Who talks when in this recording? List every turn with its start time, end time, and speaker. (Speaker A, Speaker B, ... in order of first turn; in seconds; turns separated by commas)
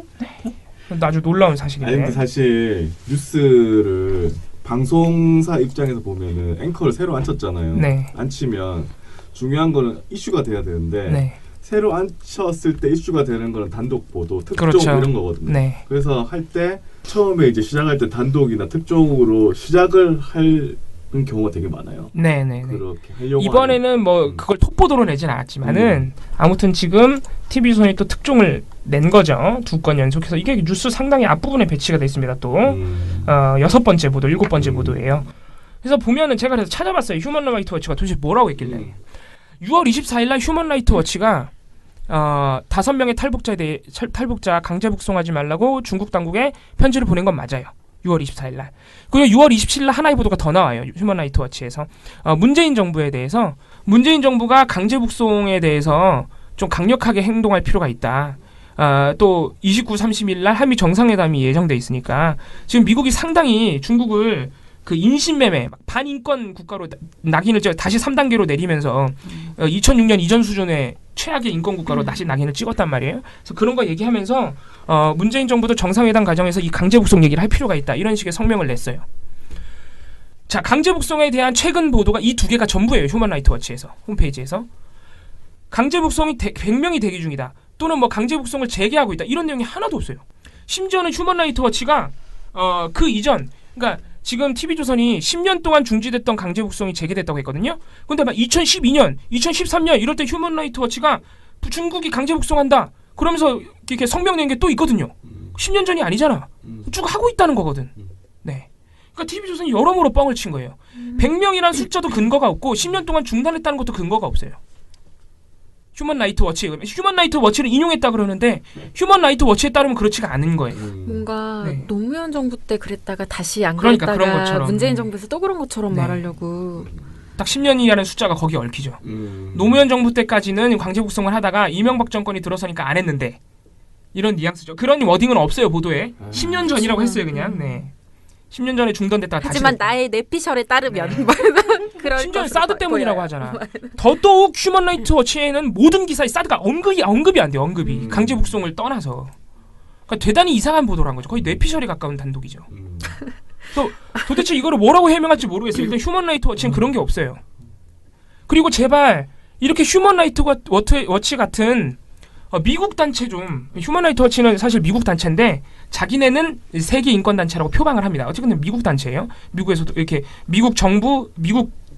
Speaker A: 0.2-2.2, Speaker B: 1.8-24.4, Speaker A: 7.7-8.1, Speaker A: 11.1-11.4, Speaker A: 14.6-15.8, Speaker A: 22.1-35.3, Speaker B: 25.6-26.1, Speaker B: 32.6-33.4, Speaker B: 34.5-35.1, Speaker A: 35.8-39.0, Speaker B: 38.6-38.9, Speaker A: 39.6-41.5, Speaker A: 42.1-79.0, Speaker A: 80.5-84.7, Speaker A: 85.7-114.6, Speaker B: 106.6-106.9, Speaker C: 111.0-111.3, Speaker A: 116.0-120.8, Speaker B: 120.8-121.3, Speaker C: 121.1-126.9, Speaker A: 121.6-121.9, Speaker A: 123.8-125.1, Speaker A: 125.9-126.3, Speaker A: 127.4-133.4, Speaker B: 129.0-129.8, Speaker A: 134.1-137.9, Speaker B: 136.2-136.7, Speaker C: 136.7-137.8, Speaker A: 138.5-140.0, Speaker C: 139.4-144.0, Speaker A: 140.9-141.4, Speaker A: 142.1-149.3, Speaker B: 147.9-148.6, Speaker A: 150.1-152.7, Speaker B: 151.3-151.6, Speaker B: 152.7-153.2, Speaker A: 153.7-157.4, Speaker B: 156.6-156.9, Speaker A: 158.5-162.0, Speaker A: 162.5-171.7